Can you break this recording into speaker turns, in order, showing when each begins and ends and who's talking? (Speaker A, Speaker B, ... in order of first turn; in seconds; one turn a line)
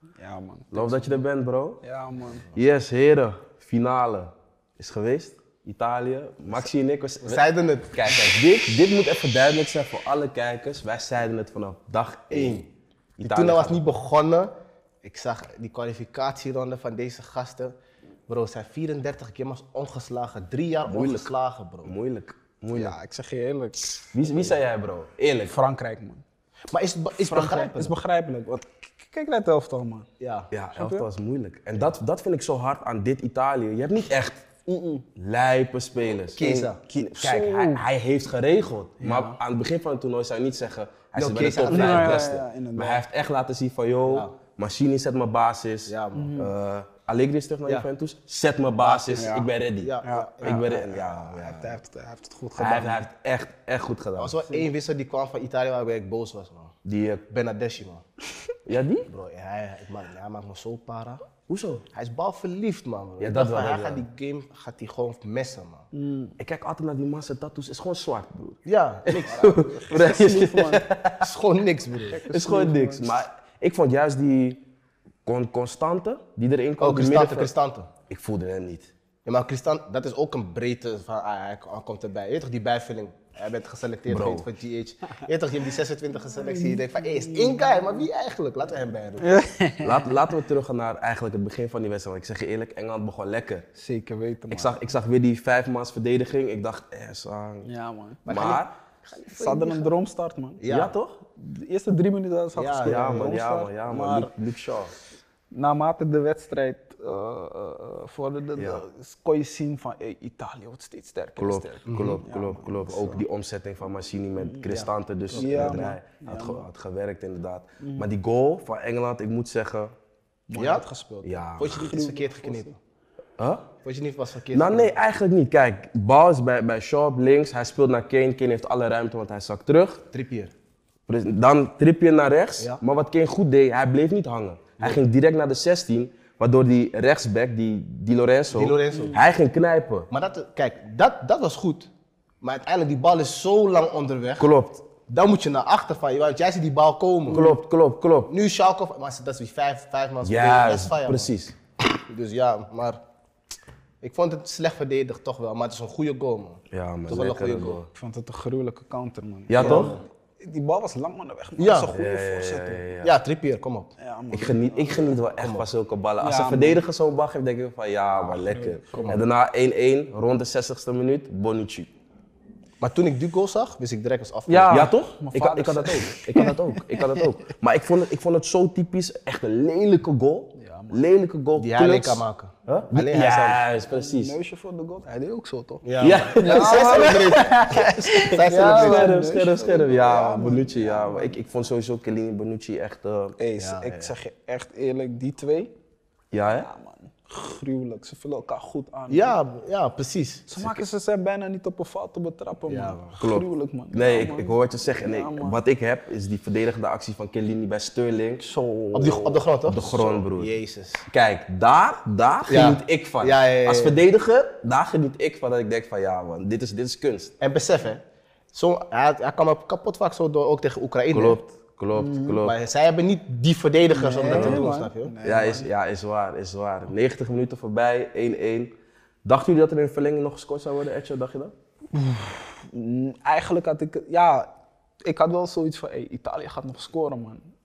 Speaker A: 0.2-1.2
Speaker B: 0.7-1.8
Speaker A: 1.8-2.5
Speaker B: 2.5-13.9
Speaker C: 7.2-8.4
Speaker C: 12.3-12.7
Speaker C: 13.2-14.5
Speaker C: 15.0-17.8
Speaker C: 18.3-21.9
Speaker B: 20.9-21.3
Speaker B: 21.8-22.9
Speaker A: 22.7-24.1
Speaker B: 24.1-25.6
Speaker A: 25.5-26.2
Speaker C: 26.7-27.9
Speaker A: 27.2-30.1
Speaker C: 30.2-30.5
Speaker B: 30.5-34.4
Speaker A: 30.8-31.1
Speaker A: 34.7-35.0
Speaker B: 35.2-51.8
Speaker C: 36.3-36.8
Speaker A: 37.2-37.6
Speaker A: 39.0-39.4
Speaker C: 41.1-42.3
Speaker A: 41.6-43.0
Speaker C: 44.1-44.3
Speaker C: 45.9-46.3
Speaker A: 46.1-46.5
Speaker C: 48.8-50.7
Speaker A: 49.2-49.5
Speaker A: 50.0-53.1
Speaker B: 52.6-54.5
Speaker C: 54.2-56.8
Speaker B: 56.8-57.2
Speaker C: 57.3-58.0
Speaker B: 58.7-59.1
Speaker C: 59.1-61.2
Speaker B: 61.5-61.8
Speaker C: 61.9-65.9
Speaker B: 63.2-64.0
Speaker A: 65.9-66.3
Speaker B: 66.4-71.3
Speaker C: 68.7-70.2
Speaker A: 69.9-70.9
Speaker C: 71.2-72.3
Speaker A: 72.2-73.2
Speaker B: 72.2-74.6
Speaker B: 75.3-77.5
Speaker C: 76.8-77.9
Speaker B: 78.1-78.9
Speaker C: 79.2-89.3
Speaker B: 84.1-84.5
Speaker A: 89.2-90.2
Speaker B: 89.8-93.7
Speaker A: 93.8-94.8
Speaker B: 94.5-97.7
Speaker A: 97.7-98.2
Speaker C: 98.3-99.9
Speaker B: 98.3-98.7
Speaker A: 99.3-100.6
Speaker C: 100.6-100.9
Speaker B: 100.7-101.2
Speaker A: 101.4-104.3
Speaker C: 102.5-103.4
Speaker B: 102.8-104.9
Speaker A: 105.5-113.2
Speaker B: 108.6-108.8
Speaker B: 111.4-119.9
Speaker C: 111.9-112.2
Speaker C: 114.7-115.9
Speaker A: 115.3-116.7
Speaker A: 117.8-118.1
Speaker A: 120.5-122.7
Speaker C: 120.5-120.9
Speaker B: 121.2-121.9
Speaker C: 121.6-122.8
Speaker B: 123.4-123.7
Speaker C: 123.8-125.0
Speaker B: 124.5-130.0
Speaker C: 130.1-130.5
Speaker B: 131.1-140.1
Speaker C: 138.5-139.2
Speaker C: 140.1-141.9
Speaker C: 142.4-144.5
Speaker B: 144.4-144.9
Speaker C: 145.1-147.6
Speaker B: 147.3-148.3
Speaker C: 148.3-151.3
Speaker B: 150.2-151.5
Speaker C: 151.9-153.0
Speaker C: 154.0-157.8
Speaker B: 156.7-157.9
Speaker A: 157.9-162.9
Speaker B: 159.5-160.0
Speaker C: 159.6-160.0
Speaker C: 161.6-161.9
Speaker B: 161.9-163.1
Speaker C: 163.0-163.9
Speaker A: 164.0-165.2
Speaker B: 164.3-171.9
Speaker C: 165.4-165.7
Speaker A: 166.2-166.8
Speaker A: 168.2-169.1
Speaker C: 168.9-169.2
Speaker C: 172.8-174.8
Speaker A: 174.5-177.2
Speaker B: 174.7-184.4
Speaker A: 180.6-181.0
Speaker C: 181.6-183.6
Speaker A: 183.9-191.4
Speaker C: 185.8-189.2
Speaker B: 186.0-193.4
Speaker A: 193.4-195.7
Speaker C: 193.6-194.1
Speaker B: 196.3-196.7
Speaker A: 196.6-199.4
Speaker C: 199.1-200.6
Speaker A: 200.5-205.6
Speaker C: 202.7-203.0
Speaker B: 203.2-210.5
Speaker A: 208.4-209.3
Speaker C: 208.9-211.1
Speaker B: 211.1-217.3
Speaker C: 212.5-214.0
Speaker C: 217.4-218.0
Speaker C: 218.5-221.4
Speaker B: 221.1-222.6
Speaker A: 221.9-222.4
Speaker C: 222.4-225.2
Speaker A: 223.9-225.7
Speaker B: 224.3-224.7
Speaker B: 225.2-228.7
Speaker B: 229.2-231.5
Speaker A: 231.9-234.5
Speaker A: 235.0-237.4